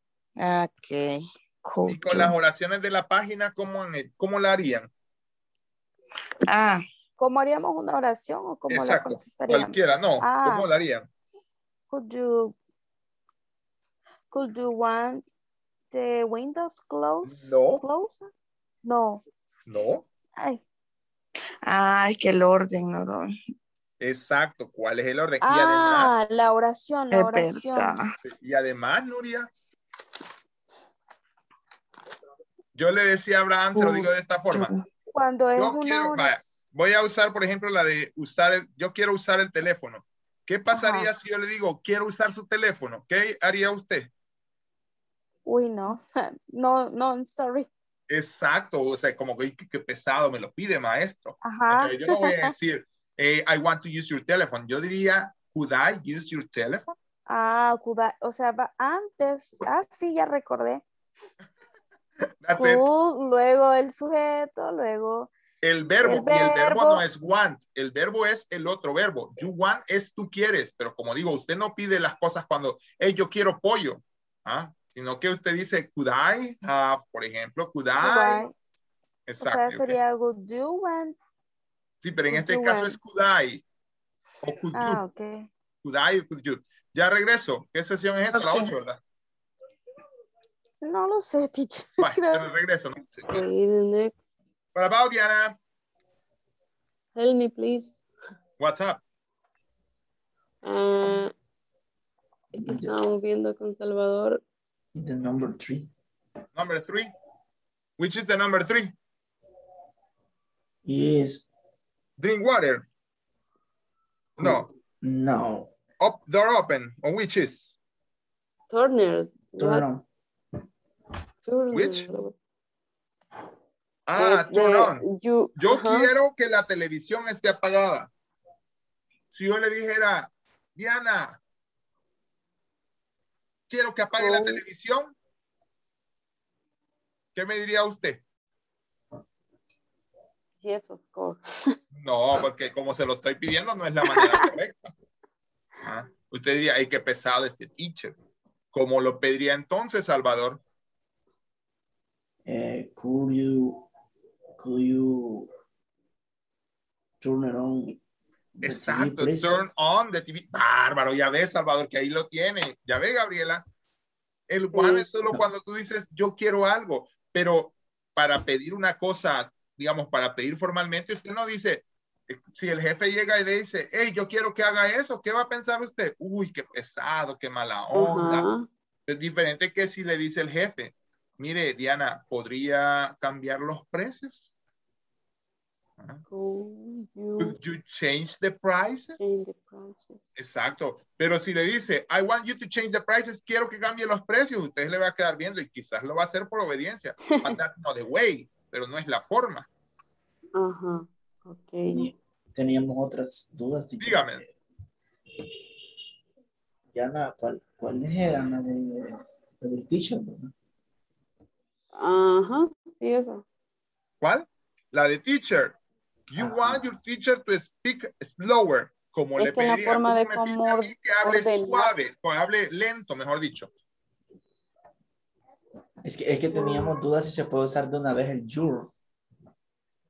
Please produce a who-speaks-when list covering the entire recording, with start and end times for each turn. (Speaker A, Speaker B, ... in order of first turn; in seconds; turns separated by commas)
Speaker A: 0.4-2.4, Speaker B: 1.9-4.9, Speaker A: 6.5-6.8, Speaker C: 7.2-10.7, Speaker B: 8.7-11.1, Speaker C: 11.9-12.6, Speaker C: 14.3-15.3, Speaker C: 15.9-18.3, Speaker B: 17.2-17.8, Speaker C: 18.9-19.2, Speaker B: 19.7-20.1, Speaker C: 20.4-20.6, Speaker A: 21.7-23.3, Speaker B: 24.0-26.1, Speaker C: 25.4-27.9, Speaker A: 27.1-28.1, Speaker B: 28.2-29.5, Speaker B: 32.8-34.7, Speaker A: 33.8-34.8, Speaker C: 35.1-36.5, Speaker B: 35.6-44.1, Speaker C: 40.7-41.1, Speaker C: 45.5-47.7, Speaker B: 48.1-57.0, Speaker C: 51.4-52.5, Speaker C: 57.3-60.8, Speaker B: 62.4-62.8, Speaker C: 62.6-65.3, Speaker B: 65.6-78.5, Speaker C: 66.0-67.0, Speaker C: 78.0-78.5, Speaker B: 79.3-80.0, Speaker C: 79.4-81.2, Speaker B: 82.0-83.6, Speaker C: 82.3-83.0, Speaker B: 84.4-85.0, Speaker C: 84.7-85.5, Speaker B: 85.8-89.0, Speaker C: 90.8-92.4, Speaker B: 92.0-93.3, Speaker D: 93.3-94.1, Speaker B: 94.8-95.6, Speaker D: 97.2-98.0, Speaker B: 98.6-99.0, Speaker D: 100.6-101.3, Speaker D: 102.5-104.4, Speaker E: 102.6-102.9, Speaker E: 105.0-105.9, Speaker B: 106.5-107.1, Speaker B: 108.0-108.9, Speaker E: 110.9-111.5, Speaker B: 112.2-112.9, Speaker B: 114.4-114.7, Speaker E: 114.4-115.7, Speaker B: 116.0-117.7, Speaker D: 118.7-119.9, Speaker E: 119.6-120.0, Speaker D: 121.5-122.3, Speaker B: 121.7-122.1, Speaker B: 124.1-125.0, Speaker D: 124.2-126.1, Speaker B: 125.6-128.1, Speaker B: 129.3-131.4, Speaker B: 133.7-135.2, Speaker D: 134.2-134.6, Speaker B: 137.3-138.2, Speaker D: 140.6-141.7, Speaker B: 141.9-144.9, Speaker B: 145.8-148.2, Speaker B: 148.7-150.6, Speaker E: 152.4-153.9, Speaker E: 154.6-155.5, Speaker E: 157.2-158.0, Speaker E: 158.6-159.6, Speaker B: 158.6-163.7, Speaker B: 164.5-178.5, Speaker D: 177.9-178.7, Speaker B: 179.1-184.4, Speaker D: 186.3-187.6, Speaker B: 187.4-189.2, Speaker D: 189.2-190.3, Speaker B: 190.4-199.7, Speaker D: 200.6-202.1, Speaker E: 201.9-204.5, Speaker B: 204.0-204.4, Speaker E: 206.9-210.5, Speaker D: 212.0-213.4, Speaker B: 214.2-215.8, Speaker B: 216.3-223.7, Speaker E: 216.3-216.8, Speaker D: 219.4-221.9, Speaker E: 226.0-228.9, Speaker D: 226.5-226.9